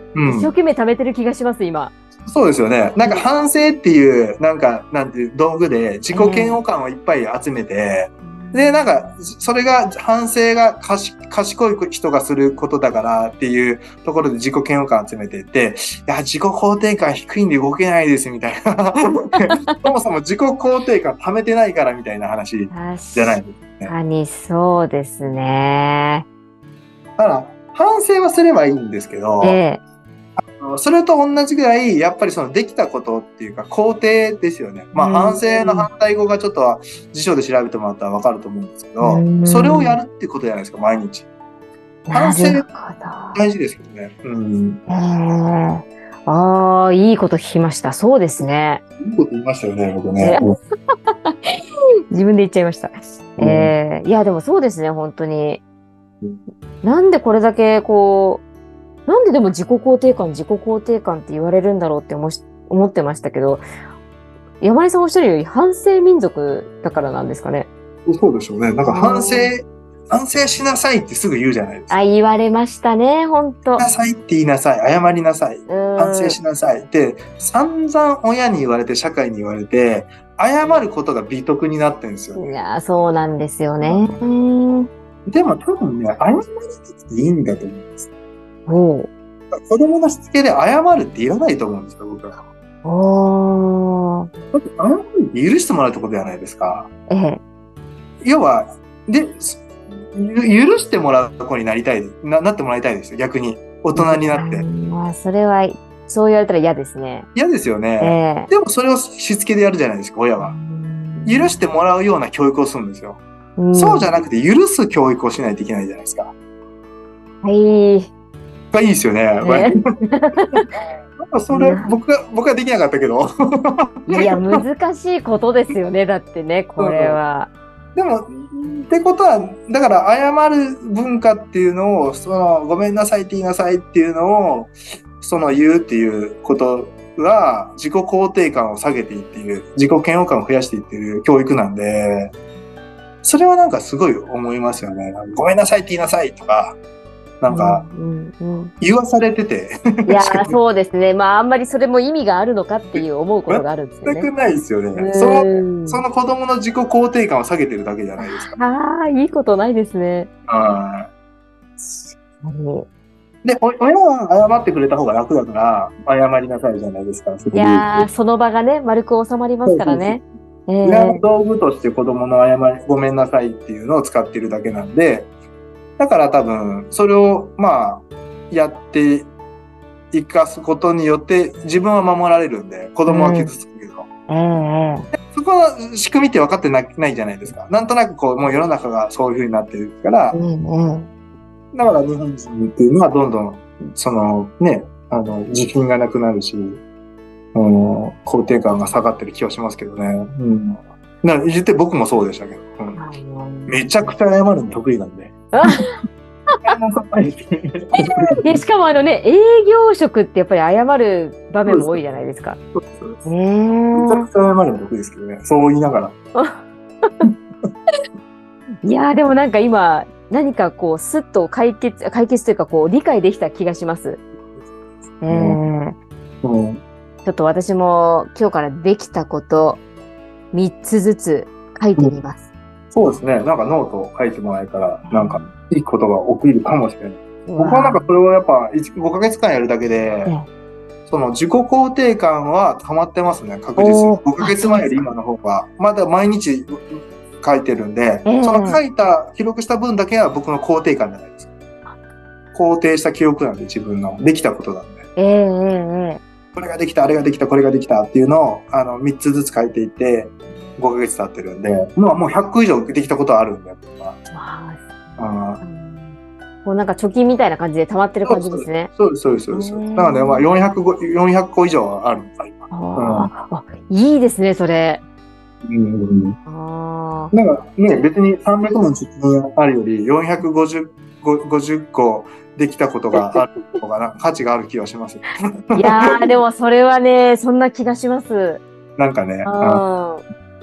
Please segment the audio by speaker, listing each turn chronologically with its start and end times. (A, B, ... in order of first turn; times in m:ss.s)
0:00.1-0:00.5 A
0:00.2-0:01.9 B
0:02.2-0:23.9 A
0:03.0-0:03.2 B
0:06.1-0:06.6 B
0:08.2-0:09.2 B
0:22.7-0:26.2 B
0:27.2-0:29.6 A
0:29.4-0:29.8 B
0:30.4-0:41.3 A
0:34.9-0:35.9 B
0:39.0-0:40.0 B
0:42.1-0:43.4 B
0:42.1-0:42.6 A
0:43.3-0:44.8 A
0:44.9-0:48.8 B
0:49.0-0:50.4 A
0:50.2-0:51.5 B
0:52.1-0:55.6 B
0:53.4-0:53.7 A
0:56.8-0:58.4 B
0:59.1-1:03.6 B
1:04.6-1:07.7 B
1:08.0-1:11.9 A
1:08.9-1:09.5 B
1:11.9-1:13.9 B
1:13.8-1:22.5 A
1:15.7-1:16.4 B
1:22.4-1:24.9 B
1:23.8-1:24.2 A
1:25.3-1:28.1 A
1:28.7-1:29.1 B
1:29.5-1:32.4 A
1:32.8-1:34.3 B
1:34.5-1:36.9 A
1:37.1-1:37.4 B
1:38.2-1:44.6 A
1:44.0-1:47.3 B
1:47.3-1:50.5 A
1:48.0-1:48.5 B
1:50.4-1:51.6 B
1:51.2-1:53.2 A
1:53.6-1:54.1 B
1:53.7-1:56.3 A
1:57.4-1:58.1 B
1:58.7-1:59.8 A
1:59.4-2:00.7 B
2:01.2-2:04.6 A
2:01.5-2:02.0 B
2:04.1-2:07.5 B
2:06.8-2:07.2 A
2:07.9-2:22.3 A
2:23.2-2:26.8 A
2:27.4-2:27.8 A
2:27.5-2:28.7 B
2:28.8-2:30.6 A
2:30.1-2:34.3 B
2:33.0-2:38.5 A
2:35.0-2:36.0 B
2:38.2-2:40.3 B
2:40.5-2:41.1 A
2:41.8-2:42.9 B
2:43.4-2:48.1 A
2:47.5-2:51.2 B
2:49.6-2:50.2 A
2:50.8-2:55.3 A
2:56.0-2:59.3 A
3:00.1-3:04.1 A
3:03.1-3:03.5 B
3:04.3-3:05.1 B
3:05.2-3:10.4 A
3:10.3-3:11.1 B
3:11.7-3:16.8 A
3:17.5-3:23.0 A
3:23.0-3:24.1 B
3:23.7-3:25.8 A
3:25.5-3:25.8 B
3:26.6-3:28.4 A
3:28.4-3:32.6 B
3:31.6-3:32.0 A
3:32.7-3:33.2 A
3:33.2-3:34.3 B
3:33.9-3:36.2 A
3:36.3-3:36.6 B
3:38.8-3:44.2 B
3:45.2-3:45.9 B
3:45.3-3:45.6 A
3:46.4-3:46.8 A
3:47.2-3:49.8 B
3:50.5-3:52.4 B
3:52.9-4:00.4 A
3:55.1-3:55.5 B
3:57.5-3:58.1 B
4:01.1-4:11.5 A
4:03.8-4:05.1 B
4:08.2-4:08.8 B
4:12.5-4:15.0 A
4:15.2-4:16.2 B
4:16.5-4:24.2 A
4:24.3-4:28.9 B
4:25.2-4:25.6 A
4:28.2-4:33.3 A
4:29.5-4:30.5 B
4:32.7-4:35.0 B
4:35.6-4:36.4 A
4:36.5-4:37.3 B
4:37.3-4:46.2 A
4:45.8-4:48.6 B
4:49.0-4:49.8 A
4:49.4-4:50.2 B